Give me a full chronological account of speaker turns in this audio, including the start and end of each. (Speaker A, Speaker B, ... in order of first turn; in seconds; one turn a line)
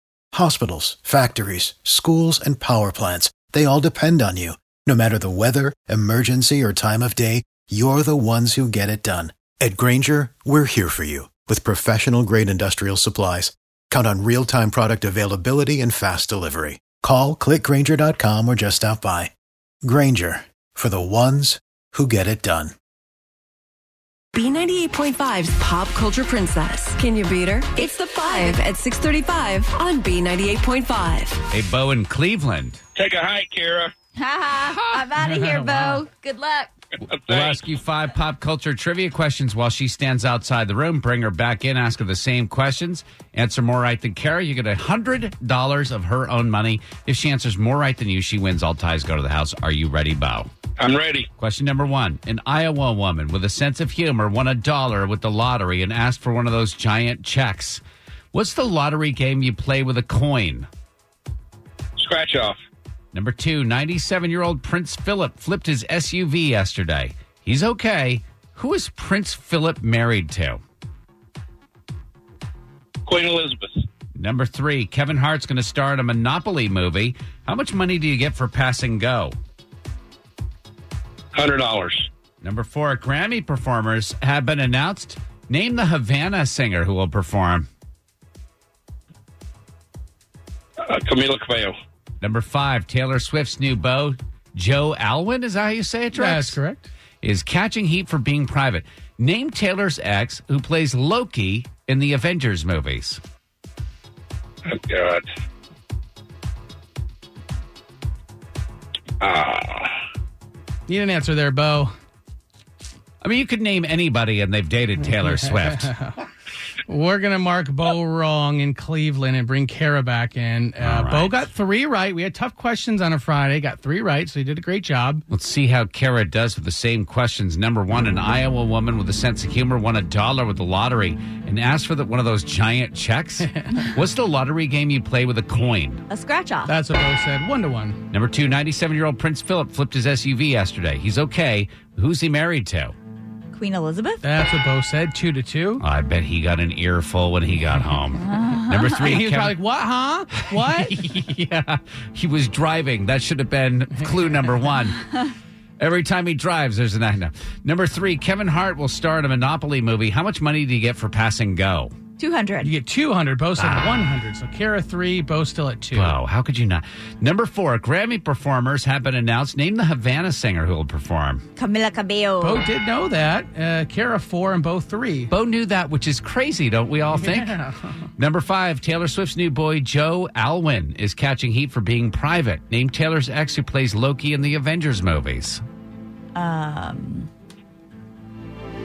Speaker A: 0.3-19.3
Speaker A: 19.8-22.7
Speaker B: 24.3-31.4
Speaker C: 28.2-28.6
Speaker D: 31.5-32.8
Speaker E: 33.0-33.9
Speaker C: 34.2-36.7
Speaker F: 35.4-36.0
Speaker D: 37.1-50.5
Speaker E: 50.8-51.3
Speaker D: 51.4-57.8
Speaker D: 58.3-60.7
Speaker E: 62.0-62.5
Speaker D: 63.1-70.6
Speaker E: 73.1-73.7
Speaker D: 74.2-79.3
Speaker E: 81.3-82.0
Speaker D: 82.4-87.7
Speaker E: 90.8-91.7
Speaker D: 92.2-96.6
Speaker F: 96.1-96.9
Speaker D: 97.2-103.2
Speaker E: 104.7-105.2
Speaker E: 109.2-109.9
Speaker F: 110.9-111.9
Speaker D: 113.2-115.9
Speaker F: 115.2-116.2
Speaker F: 116.9-125.2
Speaker D: 120.8-121.5
Speaker D: 125.3-136.0
Speaker C: 136.1-136.8
Speaker F: 136.7-138.0
Speaker D: 138.1-142.9
Speaker C: 143.5-144.2
Speaker F: 144.2-145.8
Speaker D: 145.8-149.6
Speaker C: 148.2-149.0
Speaker F: 149.1-151.0
Speaker D: 150.3-155.1
Speaker D: 155.8-161.9
Speaker C: 162.2-162.7
Speaker F: 162.6-166.1
Speaker D: 163.6-164.0
Speaker D: 165.9-171.4
Speaker C: 171.6-172.7
Speaker F: 172.4-175.3
Speaker D: 175.3-177.6
Speaker F: 177.1-177.9
Speaker D: 178.2-185.6
Speaker C: 186.3-187.3